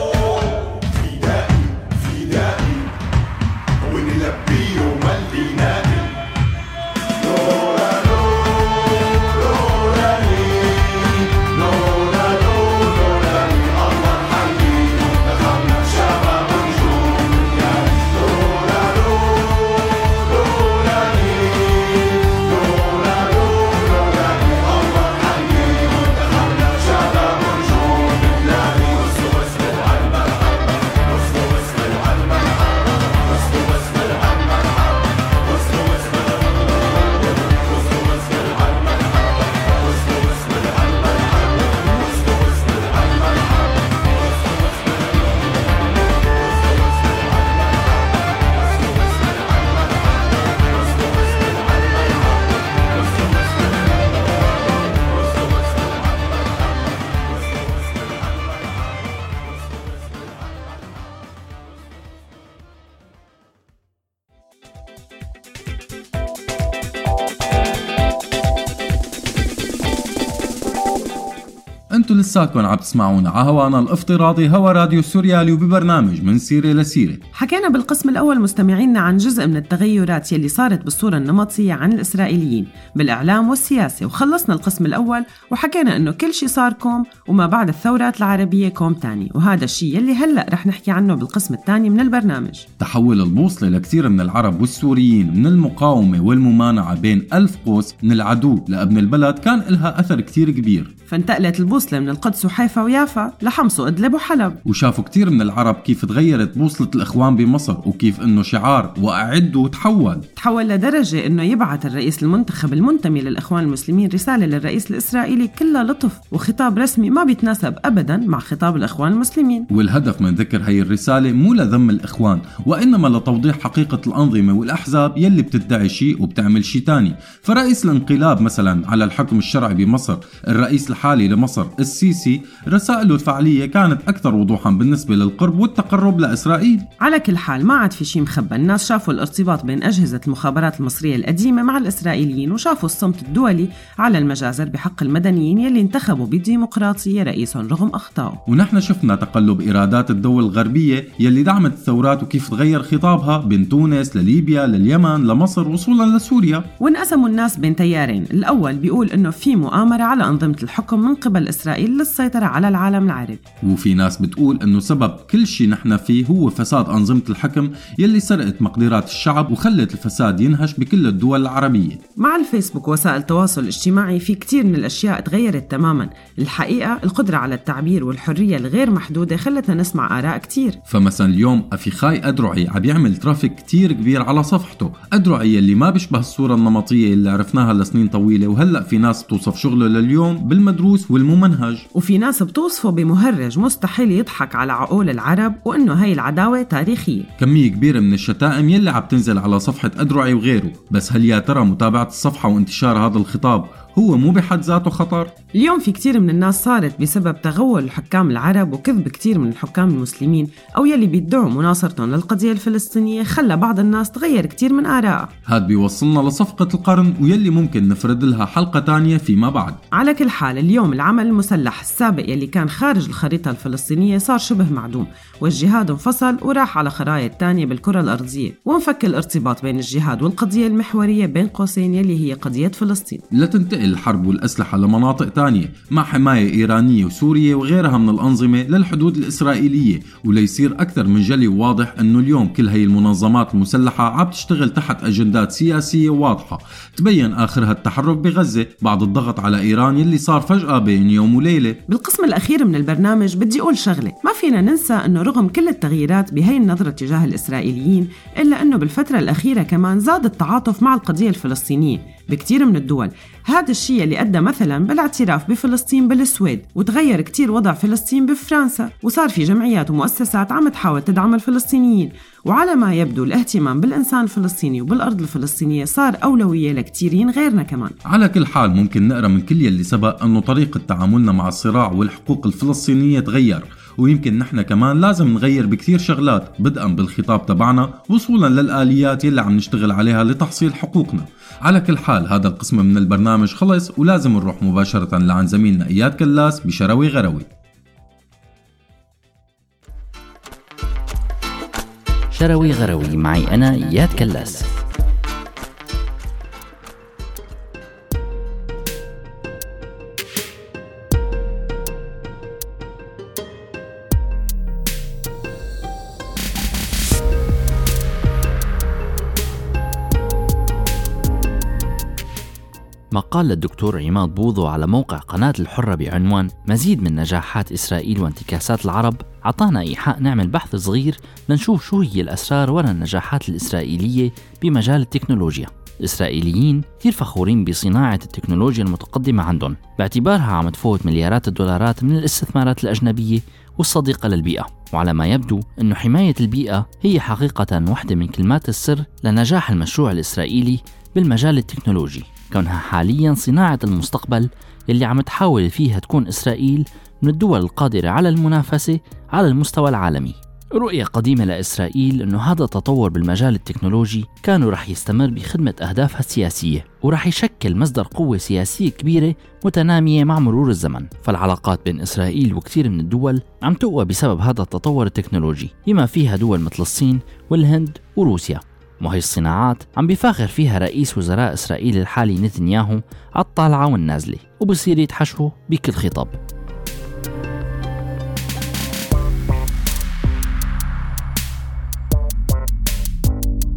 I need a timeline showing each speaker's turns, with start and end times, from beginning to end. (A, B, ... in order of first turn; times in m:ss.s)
1:11.9-1:17.2 A
1:17.3-1:32.6 B
1:32.8-1:40.9 A
1:41.1-1:44.6 B
1:44.6-1:50.2 A
1:50.4-1:59.7 B
1:59.7-2:16.9 A
2:17.0-2:28.4 B
2:28.5-2:36.7 A
2:36.8-2:43.4 B
2:43.6-2:52.0 A
2:52.2-3:00.8 B
3:00.9-3:11.8 A
3:12.0-3:17.3 B
3:17.4-3:25.3 A
3:25.6-3:35.3 B
3:35.5-3:39.8 A
3:40.0-3:53.2 B
3:53.3-4:11.8 A
4:11.9-4:38.0 B
4:38.1-4:57.5 A
5:02.4-5:04.7 C
5:23.1-6:26.3 C